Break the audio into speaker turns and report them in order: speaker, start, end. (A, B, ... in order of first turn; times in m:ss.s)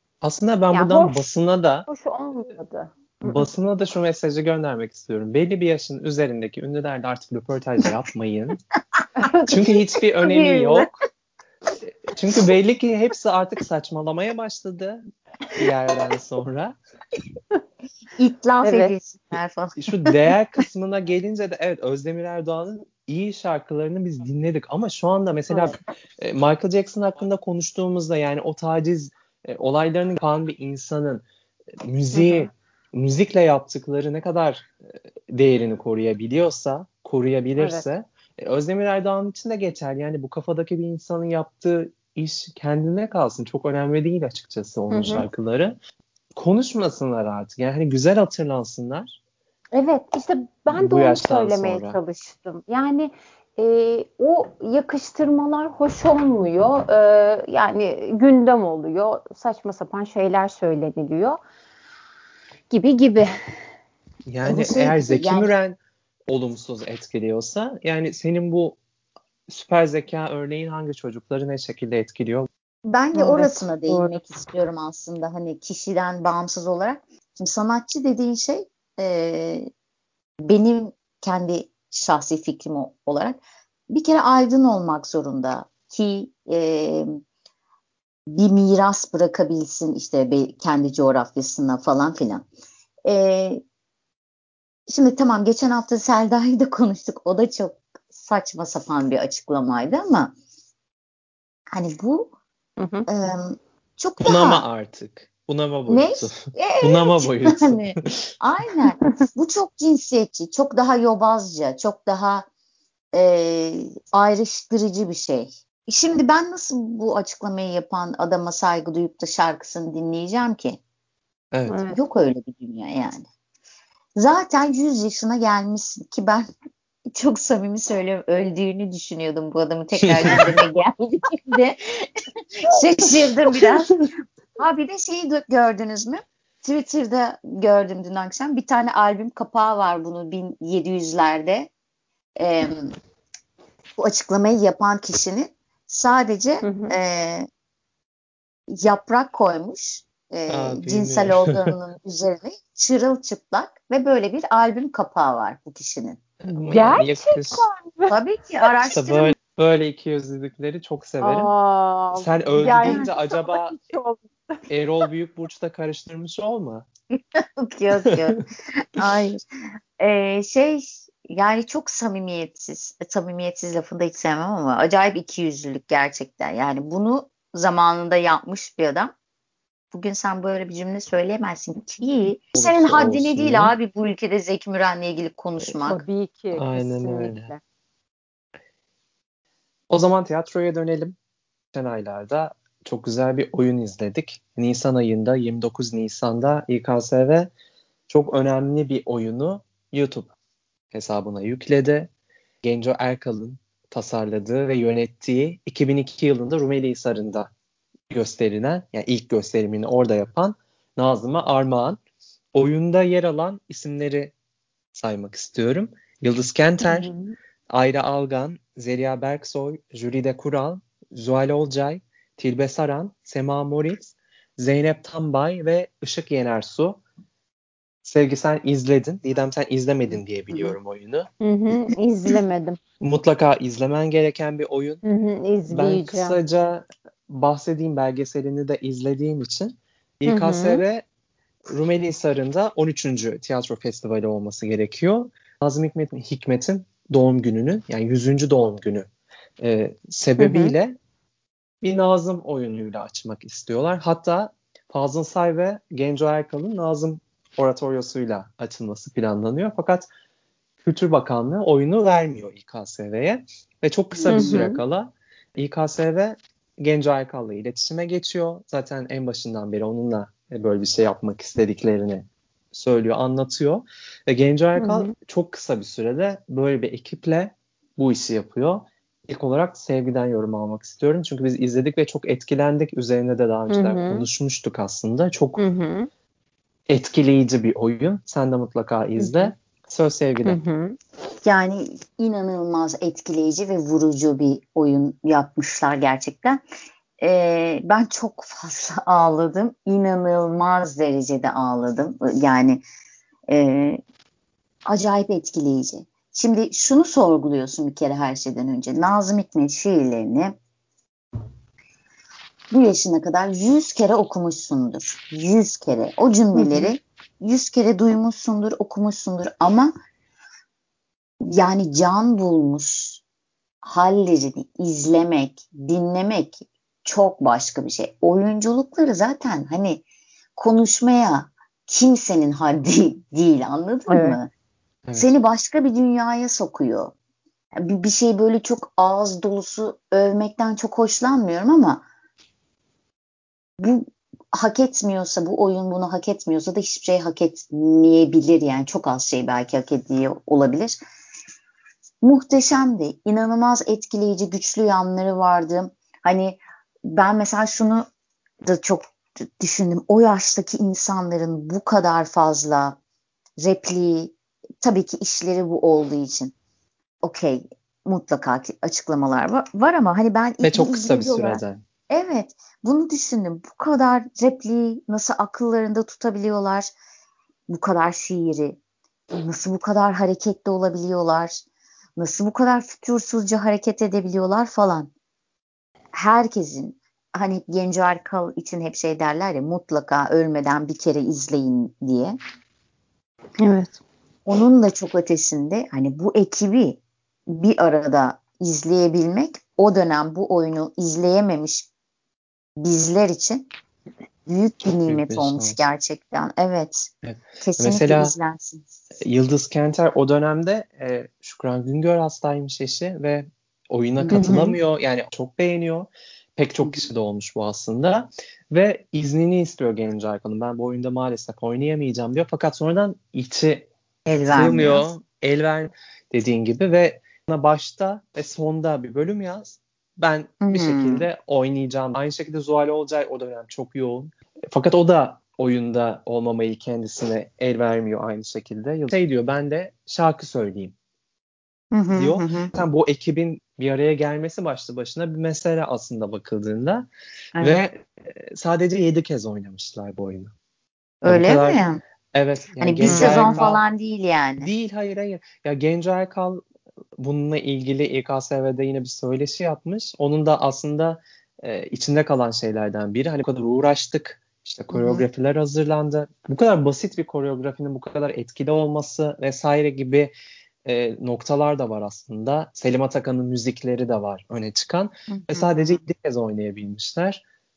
0:00.2-0:01.9 A
0:00.7-0:01.2 B
0:01.9-0:03.5 B
0:03.2-0:08.6 A
0:09.2-0:09.6 B
0:09.5-0:11.0 A
0:10.3-0:10.9 C
0:12.0-0:15.0 A
0:15.6-0:16.8 A
0:18.2-0:19.9 C
0:18.6-0:18.9 B
0:19.8-0:31.2 A
0:25.5-0:25.8 B
0:31.8-0:34.7 A
0:32.1-0:32.5 B
0:35.3-0:45.8 A
0:37.6-0:37.8 B
0:44.9-0:45.2 B
0:46.4-0:49.2 A
0:49.7-1:01.4 B
0:50.7-0:52.0 A
1:02.7-1:03.3 B
1:04.3-1:08.8 A
1:04.4-1:05.5 C
1:09.5-1:12.5 A
1:12.8-1:19.7 C
1:13.2-1:14.4 B
1:20.4-1:23.4 C
1:23.9-1:27.2 C
1:28.3-1:32.5 C
1:33.0-1:33.6 C
1:34.9-1:40.3 C
1:41.7-1:42.3 C
1:42.8-1:43.1 B
1:43.1-1:44.6 C
1:44.2-1:48.3 A
1:45.9-1:52.5 C
1:53.1-2:00.8 C
2:01.5-2:01.8 A
2:01.7-2:02.0 B
2:01.9-2:03.3 C
2:04.2-2:06.5 C
2:07.1-2:12.1 C
2:10.0-2:10.6 A
2:12.6-2:14.0 C
2:14.6-2:21.7 C
2:22.4-2:23.0 C
2:24.0-2:27.5 C
2:26.6-2:27.0 B
2:28.7-2:36.2 C
2:30.5-2:31.7 A
2:36.4-2:37.7 A
2:36.6-2:38.7 B
2:38.1-2:39.4 C
2:38.9-2:41.5 A
2:41.2-2:44.6 B
2:42.1-2:43.8 A
2:42.6-2:43.1 C
2:44.7-2:46.9 A
2:47.1-2:49.4 C
2:48.0-2:48.4 A
2:50.0-2:59.1 C
2:59.9-3:06.0 C
3:02.5-3:03.7 A
3:05.8-3:07.6 B
3:06.5-3:07.5 A
3:09.9-3:11.2 A
3:11.7-3:17.5 A
3:18.1-3:20.3 A
3:20.9-3:22.1 A
3:22.6-3:27.5 A
3:28.1-3:32.0 A
3:32.5-3:34.3 A
3:34.9-3:37.1 A
3:36.8-3:37.4 B
3:37.7-3:47.0 A
3:48.0-3:51.3 A
3:51.4-3:52.8 B
3:53.0-3:55.0 A
3:55.0-3:56.4 B
3:55.7-4:01.0 A
4:00.3-4:00.8 B
4:01.7-4:09.1 A
4:09.6-4:11.0 A
4:10.4-4:10.7 B
4:11.8-4:20.1 A
4:20.8-4:45.6 A
4:24.1-4:24.7 C
4:24.3-4:24.8 B
4:34.8-4:35.1 B
4:43.7-4:44.3 B
4:45.6-4:46.1 B
4:46.9-4:50.6 A
4:49.2-4:49.5 B
4:50.4-4:51.0 B
4:51.4-4:56.6 C
4:57.2-5:02.8 C
5:03.5-5:04.0 C
5:04.9-5:10.6 C
5:12.7-5:19.9 C
5:16.5-5:16.9 B
5:21.4-5:23.2 C
5:23.8-5:30.0 C
5:30.6-5:34.5 C
5:34.1-5:34.4 B
5:35.2-5:37.1 C
5:37.8-5:42.1 C
5:43.8-5:51.0 C
5:52.2-5:58.1 C
5:58.6-6:03.0 C
6:03.6-6:06.5 C
6:07.2-6:16.9 C
6:10.6-6:11.8 A
6:17.7-6:18.8 C
6:19.3-6:21.6 C
6:22.2-6:25.1 C
6:26.1-6:32.4 C
6:33.6-6:34.0 B
6:34.5-6:41.9 C
6:42.8-6:43.7 C
6:44.5-6:47.1 C
6:44.8-6:45.8 A
6:47.2-6:48.4 A
6:47.6-6:48.9 C
6:49.2-7:03.9 A
6:54.2-6:54.7 C
6:54.3-6:54.8 B
7:04.3-7:05.1 C
7:04.5-7:21.0 A
7:10.6-7:11.3 C
7:21.9-7:22.7 C
7:22.1-7:27.1 A
7:27.6-7:30.5 A
7:31.2-7:32.0 C
7:31.3-7:33.8 A
7:32.8-7:34.7 C
7:33.0-7:33.6 B
7:34.6-7:36.6 A
7:37.2-7:50.3 A
7:44.9-7:45.2 C
7:50.8-7:57.4 A
7:55.3-7:56.0 C